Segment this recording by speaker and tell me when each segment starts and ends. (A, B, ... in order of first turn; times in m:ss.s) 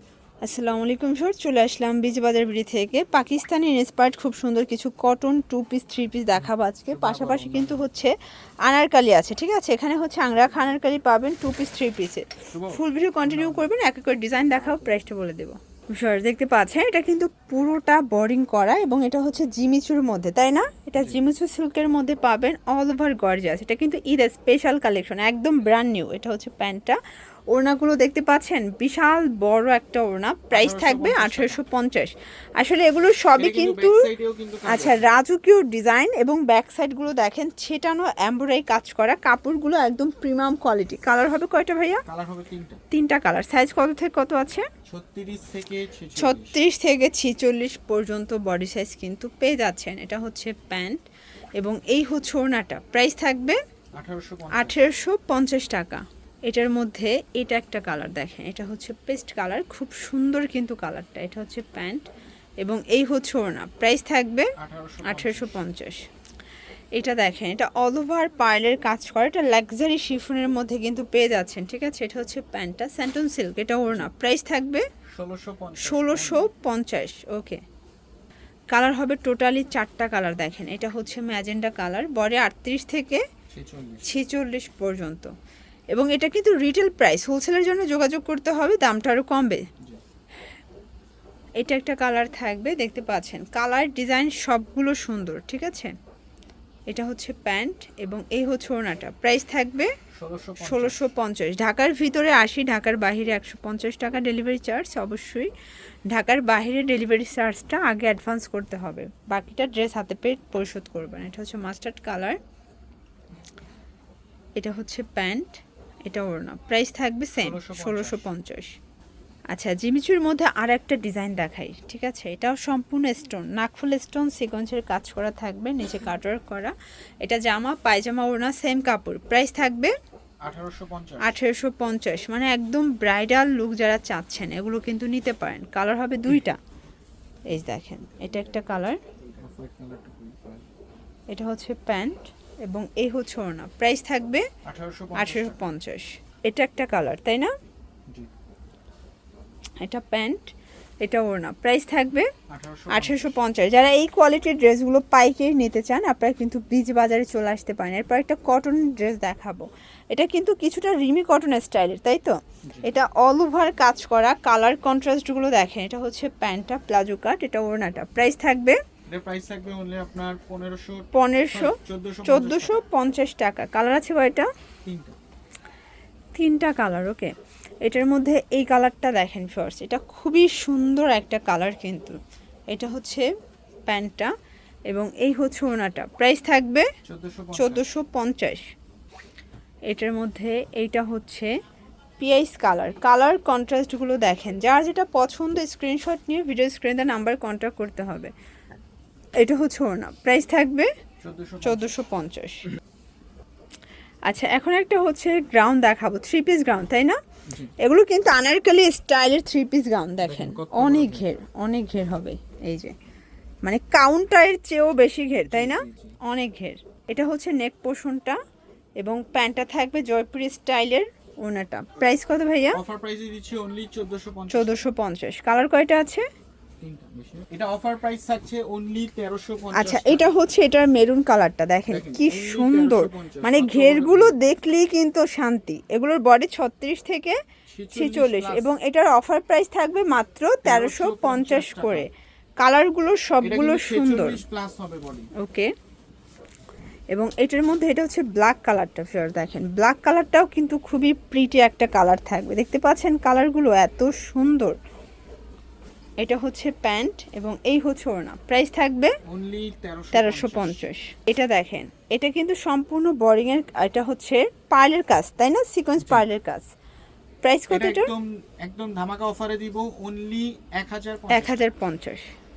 0:00.4-0:27.0 A
0:06.3-0:07.9 B
0:12.5-0:13.7 B
0:14.6-0:15.0 B
0:21.0-0:21.2 B
0:27.5-0:34.1 A
0:30.5-0:31.7 B
0:33.3-0:35.1 B
0:34.6-0:42.0 A
0:42.0-0:42.8 B
0:42.9-0:44.7 A
0:44.9-0:46.6 B
0:46.2-0:51.0 A
0:51.6-0:53.6 A
0:54.0-0:54.9 B
0:54.5-1:02.0 A
1:02.6-1:04.5 A
1:04.6-1:05.6 B
1:05.0-1:06.1 A
1:06.9-1:14.8 A
1:15.1-1:16.5 B
1:15.8-1:17.6 A
1:18.7-1:23.2 A
1:23.5-1:24.2 B
1:24.0-1:25.3 A
1:25.9-1:29.7 A
1:31.6-1:35.9 A
1:36.9-1:39.9 A
1:40.1-1:41.0 B
1:40.6-1:45.5 A
1:46.1-1:52.4 A
1:54.6-1:58.8 A
1:57.4-1:58.3 B
1:59.5-2:09.9 A
2:10.4-2:11.4 B
2:11.2-2:16.6 A
2:17.5-2:19.0 A
2:19.3-2:20.6 B
2:21.3-2:24.4 A
2:24.6-2:25.6 B
2:25.2-2:27.5 A
2:29.8-2:30.5 A
2:31.0-2:32.3 A
2:32.5-2:33.4 B
2:32.9-2:48.8 A
2:42.6-2:42.9 B
2:49.1-2:52.8 B
2:51.1-2:54.5 A
2:54.8-2:55.2 B
2:56.4-3:02.2 A
3:02.7-3:03.2 A
3:03.9-3:04.3 A
3:04.9-3:06.8 A
3:07.0-3:07.9 B
3:07.6-3:08.7 A
3:09.9-3:11.5 A
3:12.2-3:18.3 A
3:19.4-3:20.9 A
3:21.2-3:22.0 B
3:21.6-3:22.7 A
3:24.3-3:27.2 A
3:27.8-3:32.9 A
3:30.2-3:31.3 B
3:33.6-3:38.4 A
3:35.5-3:36.2 B
3:39.0-3:42.8 A
3:42.7-3:44.8 B
3:44.5-3:46.2 A
3:46.8-3:50.3 B
3:49.7-3:57.4 A
3:51.9-3:54.4 B
3:57.7-3:58.7 B
3:57.9-4:04.4 A
4:00.6-4:02.1 B
4:03.4-4:05.3 B
4:05.4-4:05.7 A
4:07.1-4:14.8 A
4:16.2-4:19.2 A
4:19.3-4:20.9 B
4:20.1-4:26.7 A
4:26.0-4:26.2 B
4:27.4-4:28.1 A
4:27.7-4:31.6 B
4:31.3-4:32.3 A